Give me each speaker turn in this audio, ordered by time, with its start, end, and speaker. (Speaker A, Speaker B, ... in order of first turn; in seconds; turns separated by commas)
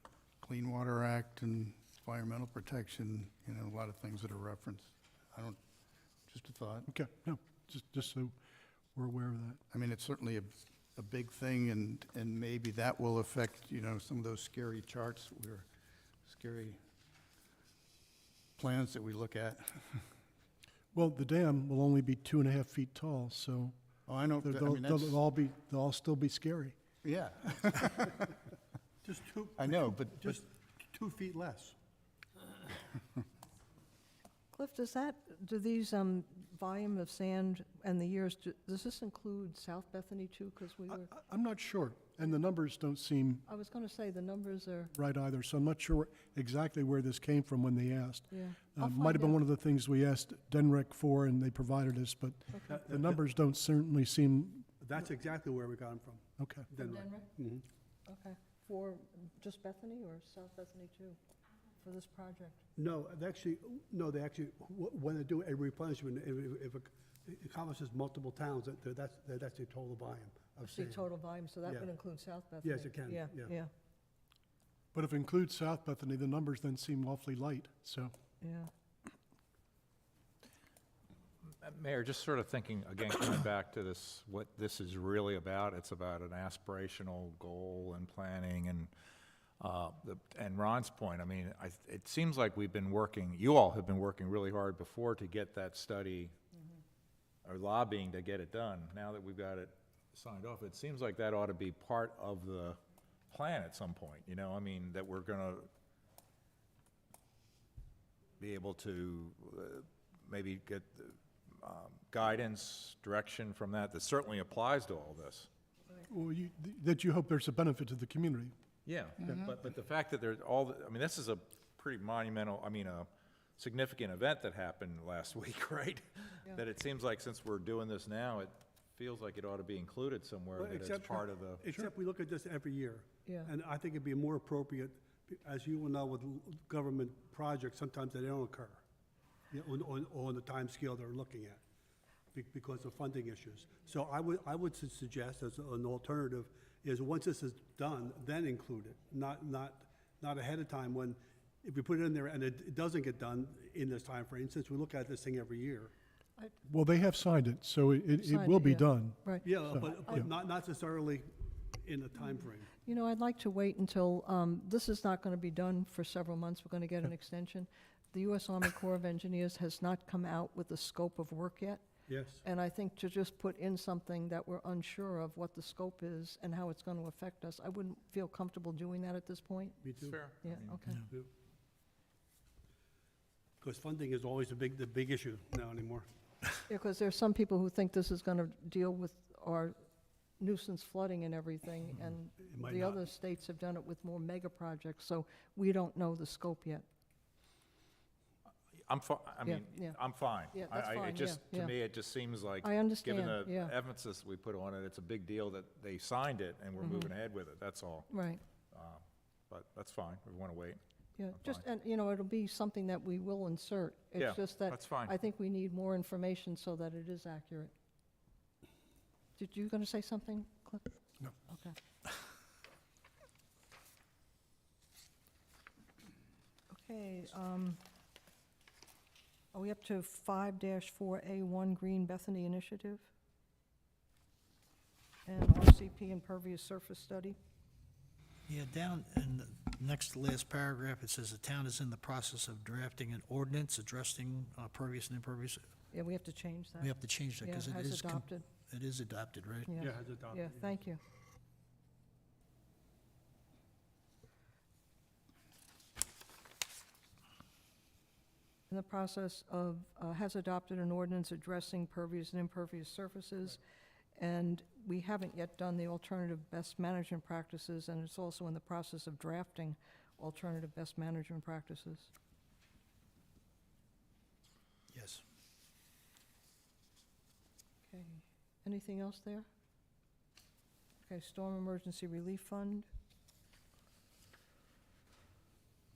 Speaker A: 0.4-5.6, Speaker A: 6.3-6.9, Speaker B: 6.9-8.4, Speaker B: 8.9-9.6, Speaker A: 9.7-15.7, Speaker A: 16.2-16.8, Speaker A: 18.6-20.1, Speaker B: 20.9-23.8, Speaker A: 24.1-25.2, Speaker B: 24.4-26.8, Speaker A: 27.0-28.3, Speaker C: 29.0-31.8, Speaker A: 29.6-30.4, Speaker D: 34.5-41.1, Speaker B: 41.1-43.4, Speaker D: 43.5-44.9, Speaker B: 45.0-54.7, Speaker D: 48.3-49.4, Speaker C: 52.7-53.2, Speaker C: 54.8-57.6, Speaker B: 56.4-56.7, Speaker D: 56.8-57.3, Speaker D: 58.1-61.2, Speaker D: 61.8-62.6, Speaker C: 62.8-71.1, Speaker D: 70.6-73.7, Speaker C: 72.6-73.5, Speaker B: 74.9-78.1, Speaker D: 78.4-78.7, Speaker E: 81.6-88.9, Speaker E: 89.6-96.3, Speaker E: 97.5-102.8, Speaker E: 103.3-105.7, Speaker E: 108.4-115.5, Speaker B: 116.0-118.5, Speaker E: 118.9-131.6, Speaker C: 130.6-138.8, Speaker D: 133.3-133.5, Speaker C: 139.5-141.6, Speaker C: 142.3-155.9, Speaker B: 156.7-160.3, Speaker D: 158.1-160.3, Speaker C: 159.4-162.7, Speaker D: 162.8-171.8, Speaker C: 172.1-172.4, Speaker D: 172.4-179.8, Speaker C: 179.8-180.2, Speaker E: 180.0-181.0, Speaker D: 180.4-181.0, Speaker C: 183.6-186.1, Speaker D: 186.7-189.8, Speaker D: 190.4-196.8, Speaker C: 192.4-193.0, Speaker E: 198.9-208.1, Speaker D: 199.4-200.0, Speaker D: 200.5-201.8, Speaker D: 202.6-203.7, Speaker D: 206.8-207.1, Speaker D: 208.1-208.4, Speaker E: 208.7-210.8, Speaker D: 211.2-217.7, Speaker E: 211.3-211.6, Speaker E: 214.2-215.1, Speaker D: 219.4-220.9, Speaker D: 221.5-221.8, Speaker D: 226.7-227.8, Speaker D: 229.5-233.1, Speaker D: 235.3-237.4, Speaker F: 238.5-245.7, Speaker D: 245.9-248.5, Speaker F: 246.8-249.7, Speaker D: 249.7-251.0, Speaker C: 249.8-250.7, Speaker D: 258.7-263.6, Speaker D: 264.2-272.1, Speaker F: 274.9-275.2, Speaker D: 277.9-279.5, Speaker D: 281.0-282.9